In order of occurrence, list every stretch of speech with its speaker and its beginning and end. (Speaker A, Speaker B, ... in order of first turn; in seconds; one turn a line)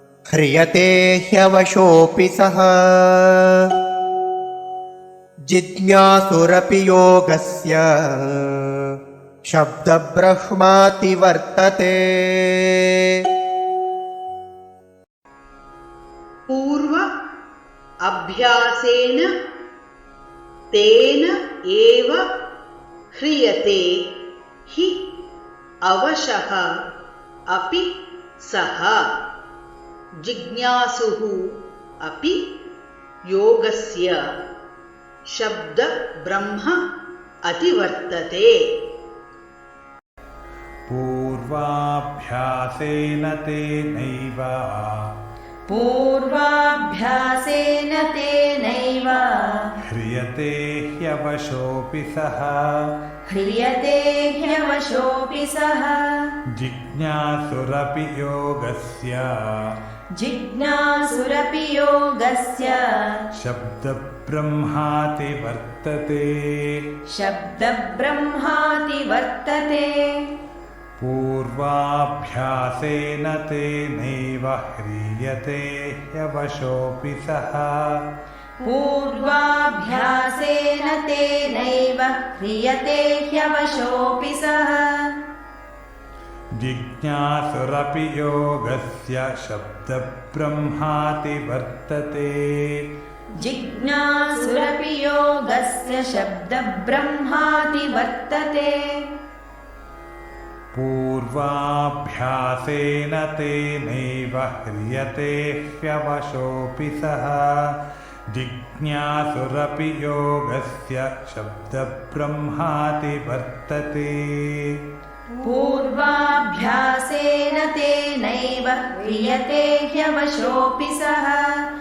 Speaker A: 0.3-3.7
Speaker A: 5.5-8.9
Speaker A: 9.5-12.9
Speaker B: 16.5-17.0
Speaker B: 18.0-19.2
Speaker B: 20.7-22.2
Speaker B: 23.1-23.8
Speaker B: 25.9-26.6
Speaker B: 27.5-27.8
Speaker B: 28.4-29.0
Speaker B: 30.2-31.4
Speaker B: 32.0-32.4
Speaker B: 33.3-34.2
Speaker B: 35.3-36.8
Speaker B: 37.5-38.5
Speaker C: 40.9-45.1
Speaker D: 45.7-49.7
Speaker C: 49.9-52.8
Speaker D: 53.3-56.3
Speaker C: 56.5-59.7
Speaker D: 60.1-63.2
Speaker C: 63.4-66.8
Speaker D: 67.1-70.3
Speaker C: 71.0-78.0
Speaker D: 78.6-85.1
Speaker C: 86.5-92.8
Speaker D: 93.4-99.0
Speaker C: 100.7-107.7
Speaker C: 108.3-114.8
Speaker D: 115.4-121.6